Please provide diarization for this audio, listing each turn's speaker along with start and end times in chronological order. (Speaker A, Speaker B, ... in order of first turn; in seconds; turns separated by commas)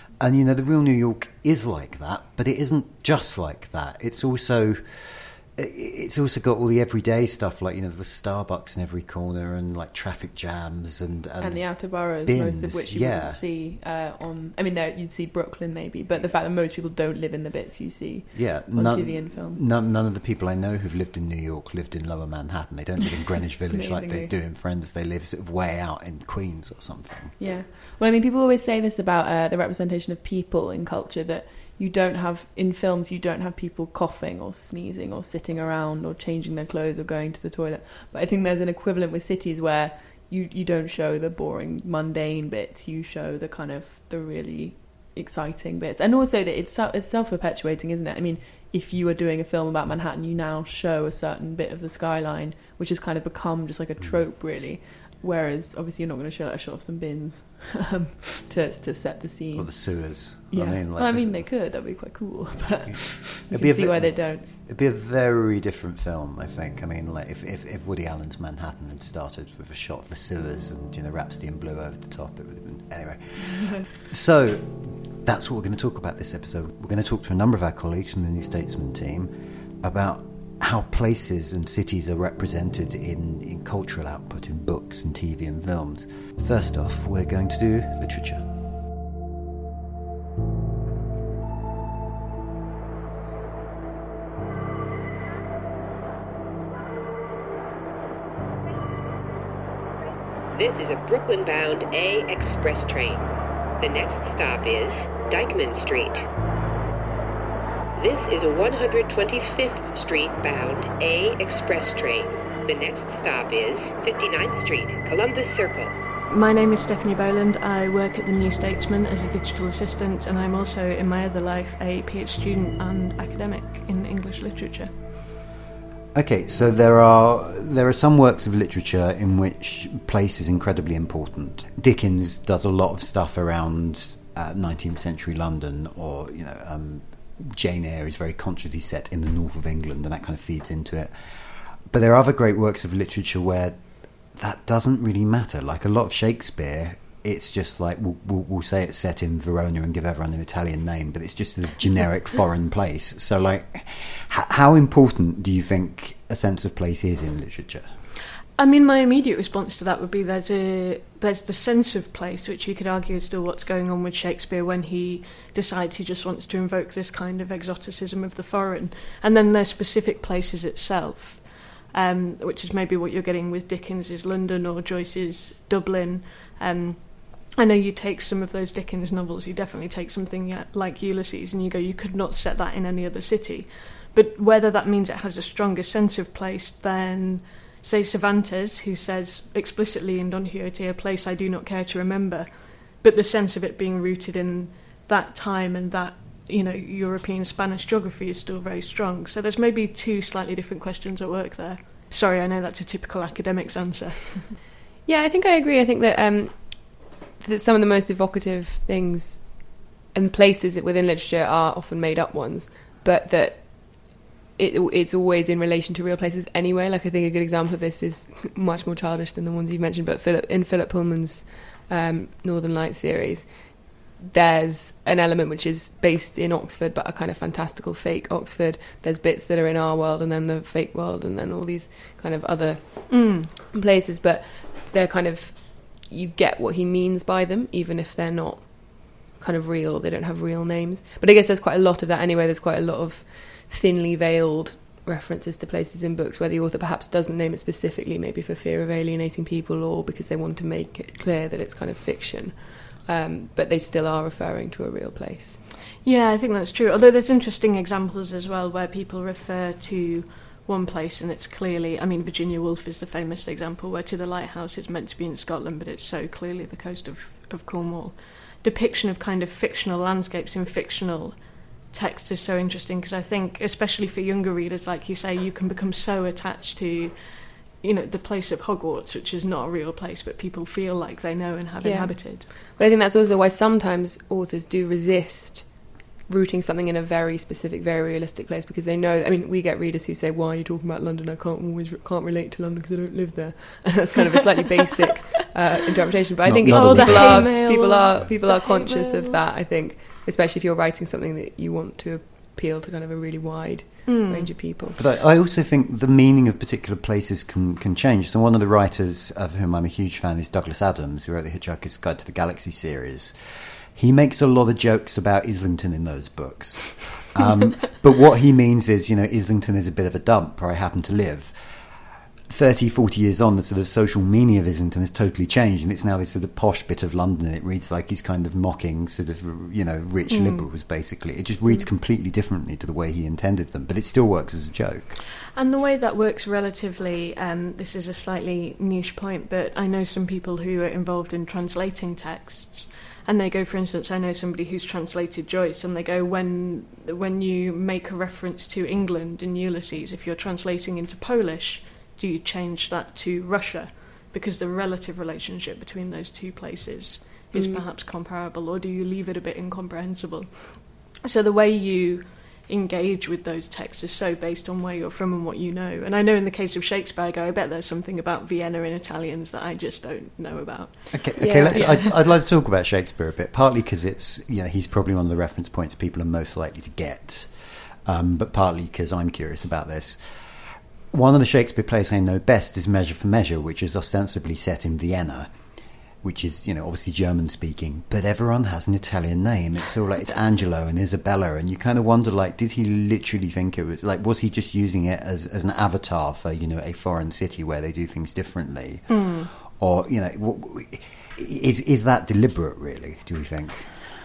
Speaker A: 0.2-13.4, Speaker B: 11.4-19.6, Speaker A: 18.3-27.3, Speaker B: 23.7-24.3, Speaker B: 27.4-59.9, Speaker A: 59.5-61.5, Speaker B: 60.5-64.5, Speaker A: 62.9-88.5, Speaker C: 100.5-106.2, Speaker C: 107.9-116.0, Speaker D: 116.3-124.9, Speaker A: 126.1-157.9, Speaker D: 158.6-204.5, Speaker E: 205.1-255.6, Speaker D: 233.1-233.5, Speaker D: 256.0-282.5, Speaker E: 281.8-305.0, Speaker A: 296.4-297.6, Speaker D: 296.6-299.4, Speaker D: 304.1-304.5, Speaker A: 305.0-313.3, Speaker A: 313.9-321.5, Speaker A: 322.5-335.2, Speaker D: 330.3-330.7, Speaker D: 335.5-372.1, Speaker E: 357.5-357.8, Speaker A: 371.1-377.5, Speaker E: 371.4-372.0, Speaker A: 378.1-385.5, Speaker A: 386.2-404.0, Speaker D: 399.1-399.5